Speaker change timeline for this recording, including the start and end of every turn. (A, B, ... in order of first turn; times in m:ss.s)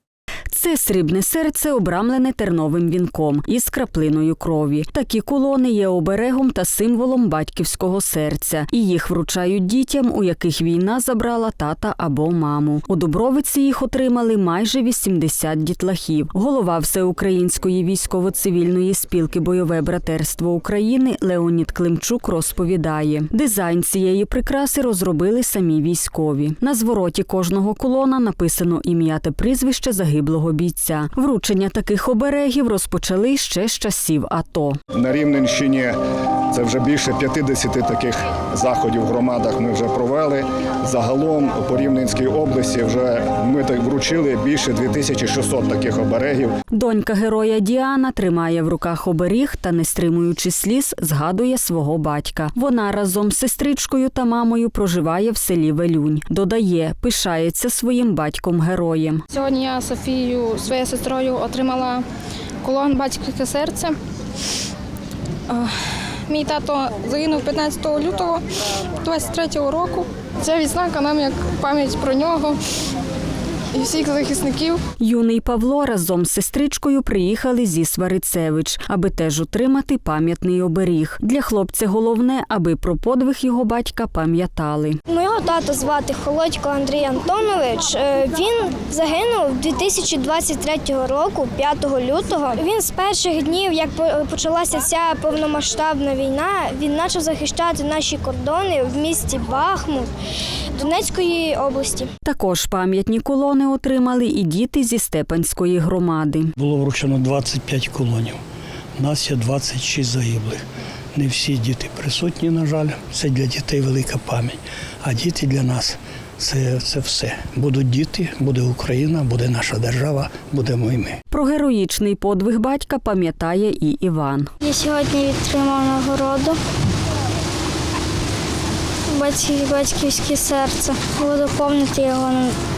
0:00.5-0:34.8 A
0:35.4-0:35.9 B
0:37.1-0:38.1 B
0:38.8-0:39.8 B
0:42.1-0:44.1 B
0:44.8-0:46.1 B
0:46.7-0:59.2 A
0:59.3-1:02.0 C
1:02.7-1:03.9 C
1:06.3-1:08.4 C
1:09.0-1:12.5 C
1:13.8-1:14.8 C
1:15.0-1:25.0 A
1:25.1-1:40.1 D
1:40.8-1:42.1 D
1:42.2-1:46.5 A
1:46.6-1:48.4 E
1:49.0-1:50.6 E
1:51.1-2:01.2 E
2:01.3-2:04.5 A
2:04.6-2:06.6 D
2:09.1-2:12.5 D